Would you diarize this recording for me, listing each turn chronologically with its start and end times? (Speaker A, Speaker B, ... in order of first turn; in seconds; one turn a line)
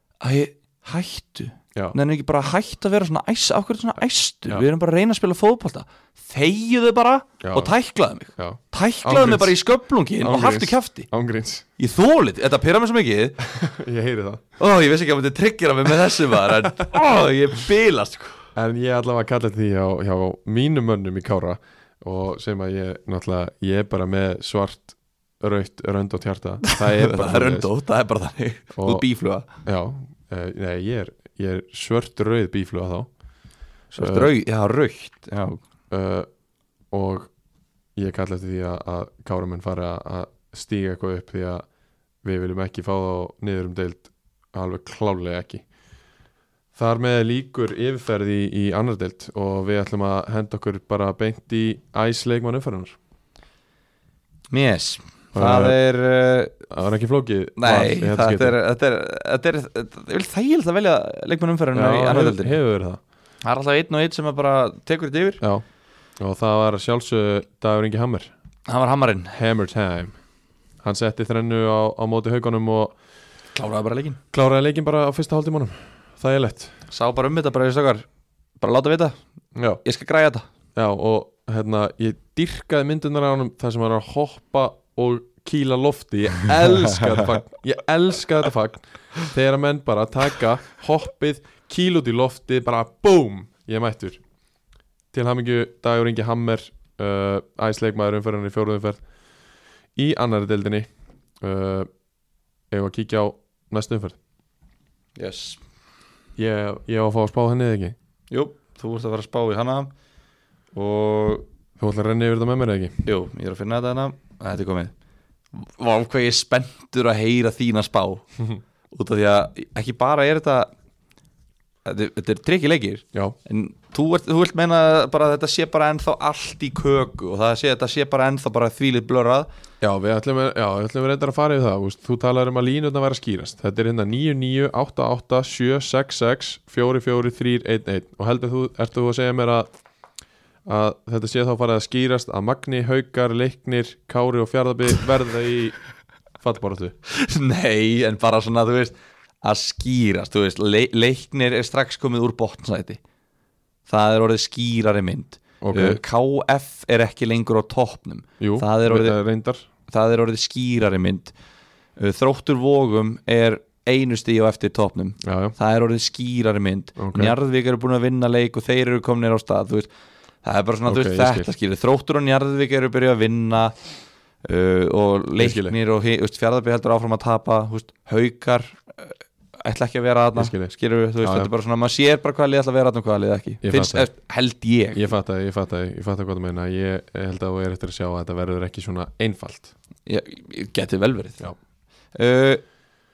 Speaker A: 0.2-11.1
Speaker B: 7.4-7.7
Speaker B: 8.4-9.6
Speaker B: 10.2-11.7
Speaker A: 11.8-13.4
Speaker B: 13.4-14.4
Speaker A: 14.6-18.4
Speaker B: 18.6-27.7
Speaker A: 26.6-29.5
Speaker B: 28.7-29.1
Speaker B: 29.6-33.1
Speaker A: 33.9-35.6
Speaker B: 34.0-34.3
Speaker B: 35.9-36.3
Speaker B: 36.9-37.3
Speaker B: 38.0-41.6
Speaker B: 42.2-45.6
Speaker B: 46.8-53.0
Speaker A: 54.5-56.6
Speaker B: 55.4-55.8
Speaker B: 56.7-58.6
Speaker A: 57.6-62.5
Speaker B: 61.7-63.0
Speaker A: 63.4-65.4
Speaker B: 66.2-68.3
Speaker A: 68.7-69.4
Speaker B: 69.3-70.2
Speaker B: 70.8-73.0
Speaker A: 73.5-74.2
Speaker B: 74.3-76.8
Speaker A: 76.9-78.1
Speaker A: 78.6-79.2
Speaker B: 79.6-79.8
Speaker A: 79.8-80.5
Speaker B: 80.8-94.2
Speaker B: 95.1-99.0
Speaker B: 100.0-100.9
Speaker B: 101.4-101.9
Speaker B: 102.7-104.2
Speaker A: 105.2-105.6
Speaker B: 106.4-108.0
Speaker A: 108.3-109.9
Speaker A: 110.7-111.5
Speaker B: 111.8-113.0
Speaker A: 113.0-114.9
Speaker A: 115.5-118.2
Speaker A: 118.9-120.7
Speaker A: 121.8-129.5
Speaker B: 129.8-139.7
Speaker B: 140.7-145.8
Speaker B: 146.4-146.9
Speaker A: 147.1-153.0
Speaker A: 153.9-159.2
Speaker B: 155.6-156.0
Speaker B: 158.4-159.7
Speaker A: 159.9-161.3
Speaker A: 162.0-169.9
Speaker B: 165.2-165.6
Speaker B: 167.0-167.4
Speaker A: 170.4-173.7
Speaker B: 170.9-171.5
Speaker A: 174.4-185.0
Speaker B: 175.4-175.8
Speaker B: 180.4-181.5
Speaker B: 183.6-184.1
Speaker B: 184.9-189.7
Speaker A: 190.1-191.4
Speaker A: 192.2-192.6